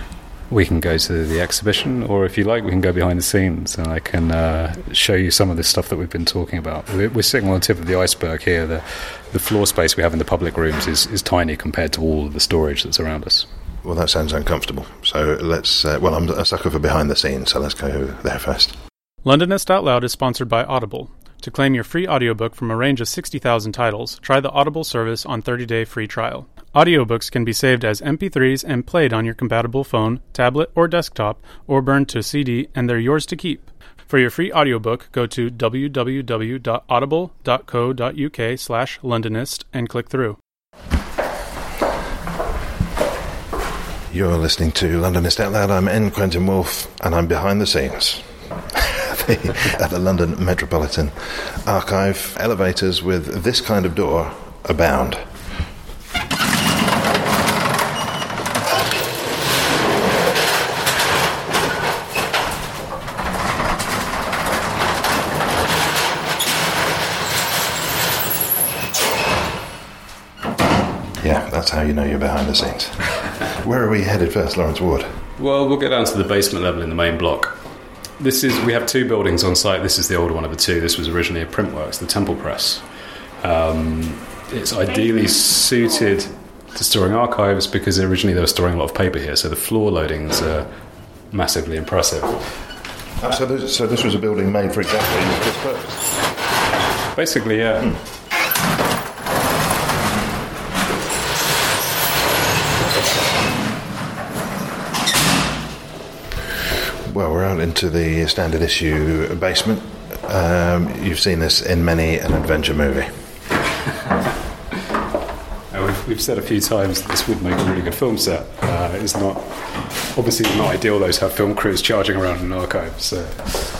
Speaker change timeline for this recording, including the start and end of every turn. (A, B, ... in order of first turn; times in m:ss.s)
0:00.5-0:13.5 A
0:13.8-0:18.7 B
0:19.2-0:40.4 C
0:44.1-0:55.3 B
1:11.2-1:15.2 B
1:15.4-1:17.6 A
1:18.2-1:22.8 A
1:23.4-1:30.7 A
1:31.3-1:32.4 A
1:33.2-1:36.0 B
1:37.1-1:38.0 A
1:47.0-1:53.1 B
1:55.7-1:59.4 A
2:00.1-2:03.5 A